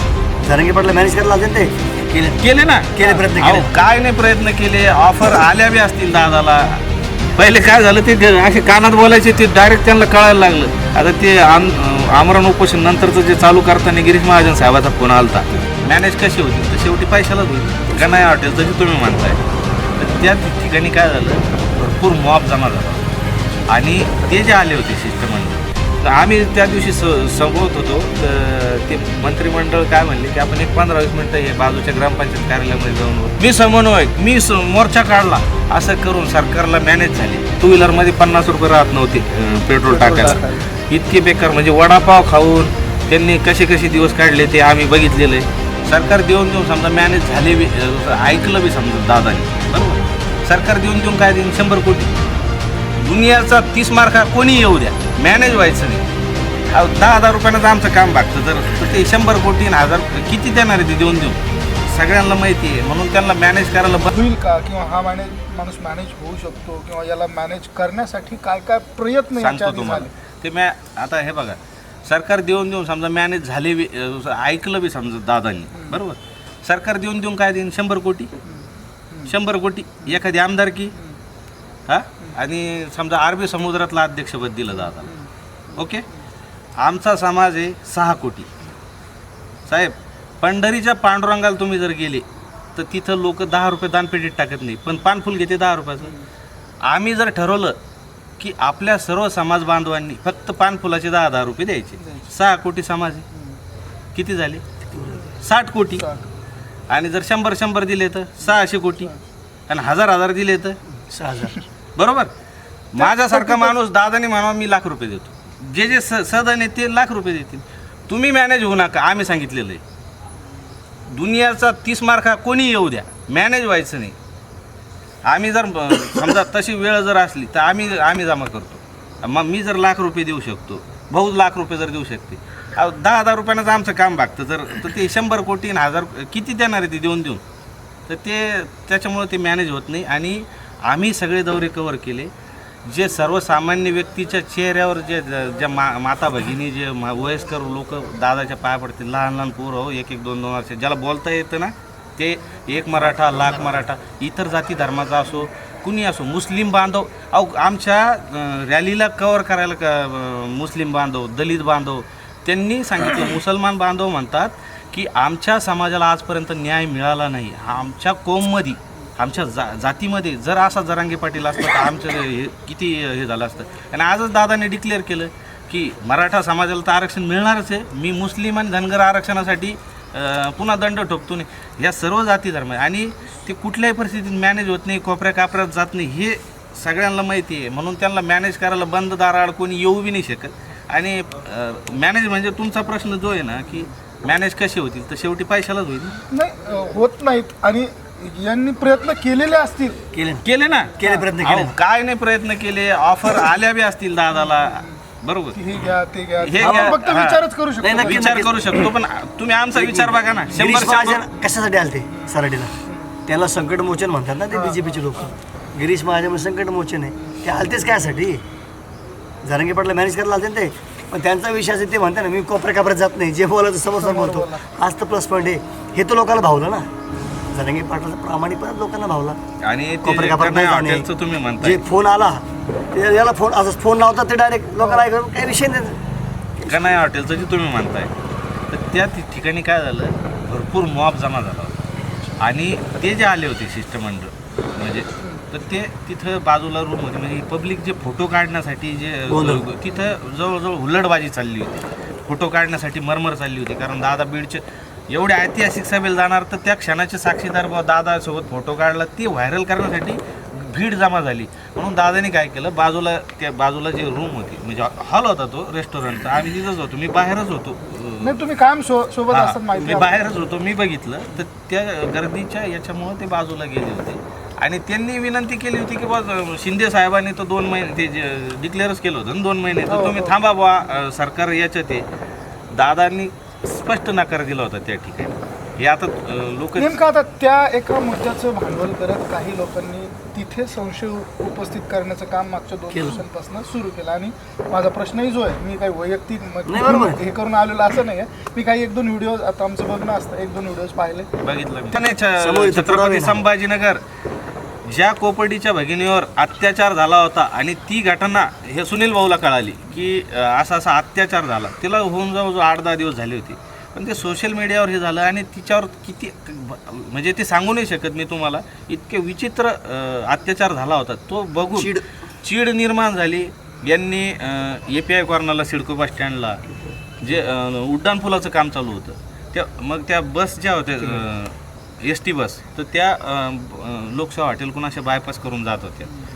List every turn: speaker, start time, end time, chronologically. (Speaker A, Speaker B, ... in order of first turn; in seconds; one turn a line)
Speaker A: 0.4-2.4
Speaker B: 2.4-6.8
Speaker A: 2.9-3.8
Speaker B: 7.3-19.4
Speaker B: 20.0-23.1
Speaker B: 23.7-52.1
Speaker C: 39.9-40.6
Speaker B: 53.0-56.1
Speaker B: 56.7-64.1
Speaker C: 64.1-70.1
Speaker B: 69.4-78.3
Speaker C: 75.7-76.0
Speaker C: 78.4-79.3
Speaker B: 79.3-80.9
Speaker B: 81.9-85.1
Speaker B: 85.8-86.0
Speaker B: 86.8-88.7
Speaker B: 89.7-96.2
Speaker B: 96.8-97.8
Speaker B: 98.4-103.2
Speaker B: 104.2-104.6
Speaker A: 104.8-105.3
Speaker B: 105.4-106.1
Speaker C: 106.0-106.3
Speaker B: 106.9-109.1
Speaker B: 109.7-110.8
Speaker A: 111.1-111.6
Speaker B: 112.0-112.3
Speaker B: 112.9-119.8
Speaker C: 113.0-113.7
Speaker B: 121.1-124.2
Speaker B: 125.2-137.4
Speaker B: 138.1-142.3
Speaker B: 142.8-196.2
Speaker C: 196.3-200.0
Speaker A: 200.1-200.4
Speaker B: 200.4-205.6
Speaker A: 201.0-201.8
Speaker C: 204.4-205.0
Speaker C: 205.5-208.4
Speaker B: 206.4-207.4
Speaker A: 206.6-207.0
Speaker A: 207.8-208.9
Speaker B: 207.9-211.2
Speaker A: 209.8-212.7
Speaker C: 212.9-213.1
Speaker A: 213.3-218.4
Speaker A: 219.4-226.9
Speaker C: 224.0-224.7
Speaker A: 227.5-229.4
Speaker B: 229.6-231.8
Speaker A: 230.0-231.1
Speaker A: 231.6-236.0
Speaker A: 236.6-237.0
Speaker B: 236.7-238.1
Speaker B: 238.7-241.9
Speaker B: 242.4-268.4
Speaker A: 249.3-249.6
Speaker C: 268.2-270.4
Speaker B: 269.3-282.1
Speaker C: 279.9-280.4
Speaker B: 282.7-287.0
Speaker C: 286.8-301.3
Speaker A: 292.9-293.2
Speaker A: 296.7-297.2
Speaker B: 301.4-304.0
Speaker A: 302.4-303.4
Speaker B: 304.8-326.6
Speaker A: 321.8-322.0
Speaker B: 327.2-336.1